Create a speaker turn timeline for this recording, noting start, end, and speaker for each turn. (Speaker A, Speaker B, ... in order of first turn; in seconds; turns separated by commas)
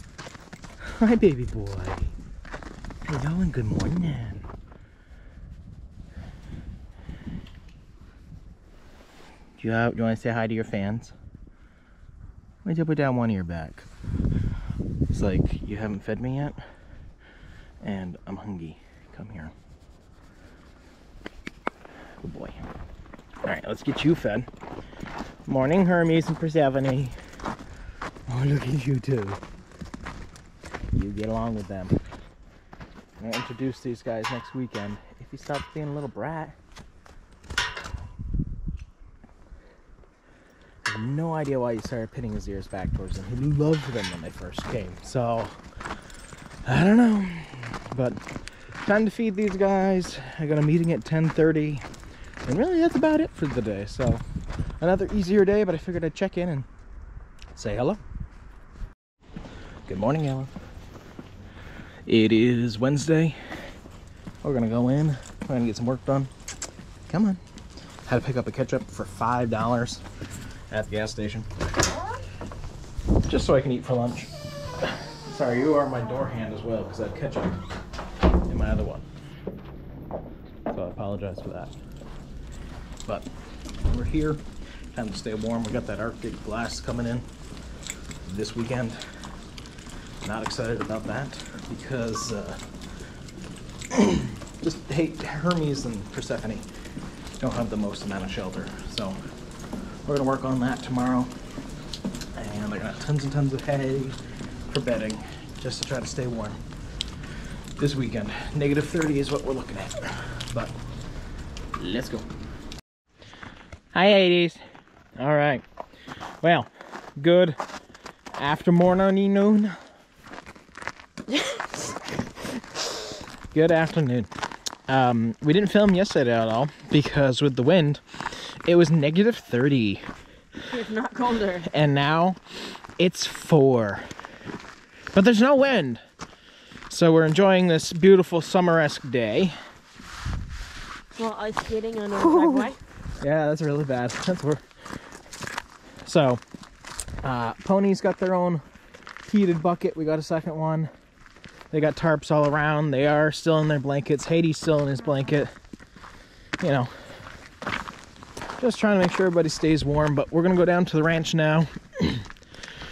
Speaker A: 1.0-2.1, Speaker A: 3.0-4.5, Speaker A: 9.6-11.1, Speaker A: 12.6-13.9, Speaker A: 15.1-16.6, Speaker A: 17.8-19.5, Speaker A: 22.2-22.7, Speaker A: 23.4-24.5, Speaker A: 25.4-27.2, Speaker A: 28.3-29.4, Speaker A: 30.9-32.0, Speaker A: 33.2-36.5, Speaker A: 40.8-45.6, Speaker A: 46.6-48.2, Speaker A: 48.8-51.8, Speaker A: 52.4-54.2, Speaker A: 54.8-56.7, Speaker A: 57.5-58.0, Speaker A: 59.9-60.5, Speaker A: 62.0-63.4, Speaker A: 64.4-66.3, Speaker A: 67.1-67.4, Speaker A: 68.0-70.0, Speaker A: 70.7-71.5, Speaker A: 73.2-77.6, Speaker A: 78.5-79.0, Speaker A: 80.7-81.8, Speaker A: 83.8-87.2, Speaker A: 88.2-89.0, Speaker A: 90.2-92.6, Speaker A: 93.9-96.7, Speaker A: 97.4-99.2, Speaker A: 100.0-101.3, Speaker A: 102.3-106.6, Speaker A: 107.8-110.7, Speaker A: 111.8-112.3, Speaker A: 113.9-114.6, Speaker A: 115.2-115.6, Speaker A: 116.4-117.6, Speaker A: 118.3-119.8, Speaker B: 121.3-122.0, Speaker A: 123.5-124.3, Speaker A: 124.9-130.0, Speaker B: 130.7-131.7, Speaker A: 131.6-132.4, Speaker A: 133.0-134.0, Speaker A: 135.1-136.0, Speaker A: 136.9-139.6, Speaker B: 141.2-142.8, Speaker A: 142.2-144.6, Speaker A: 146.0-146.4, Speaker A: 147.2-148.6, Speaker A: 149.2-150.9, Speaker A: 151.7-155.5, Speaker A: 156.6-156.9, Speaker A: 158.6-162.3